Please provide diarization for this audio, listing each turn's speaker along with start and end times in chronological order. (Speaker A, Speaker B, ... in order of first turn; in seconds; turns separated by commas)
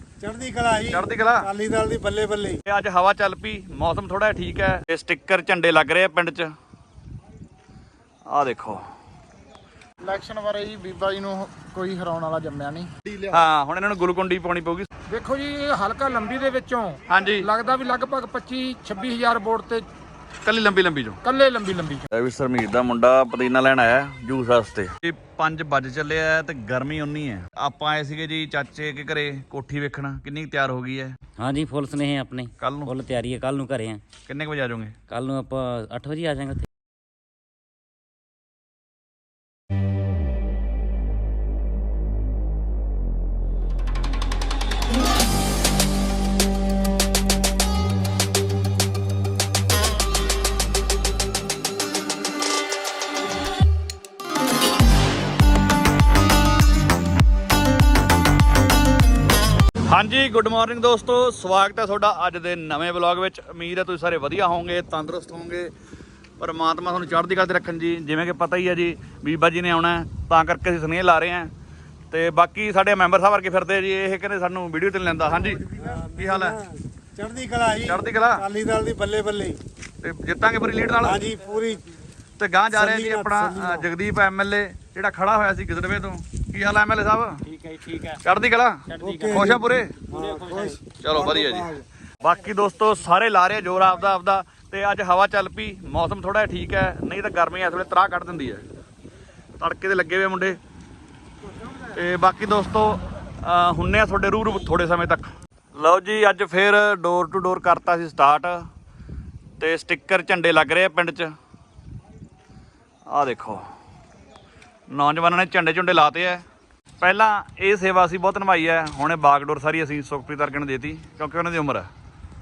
Speaker A: 0.2-2.6, Speaker B: 0.9-1.5, Speaker B: 2.6-6.5, Speaker B: 8.3-8.8, Speaker C: 10.0-13.1, Speaker B: 13.3-14.9, Speaker D: 15.1-19.9, Speaker B: 17.1-17.5, Speaker B: 20.4-21.2, Speaker D: 21.2-22.0, Speaker B: 22.1-31.2, Speaker E: 31.4-34.0, Speaker B: 32.6-32.9, Speaker B: 34.2-35.0, Speaker E: 35.1-36.7, Speaker B: 59.9-65.7, Speaker B: 66.4-71.5, Speaker B: 72.1-76.6, Speaker A: 75.7-79.6, Speaker B: 77.8-78.5, Speaker B: 80.0-81.3, Speaker A: 81.0-81.8, Speaker B: 82.4-87.5, Speaker A: 82.7-83.9, Speaker E: 87.5-88.2, Speaker B: 88.2-90.0, Speaker E: 88.9-89.5, Speaker A: 89.0-91.8, Speaker E: 90.1-90.8, Speaker B: 90.9-98.6, Speaker B: 99.6-100.6, Speaker B: 101.9-108.6, Speaker B: 109.6-111.3, Speaker B: 113.1-113.6, Speaker B: 114.9-116.4, Speaker B: 117.0-121.9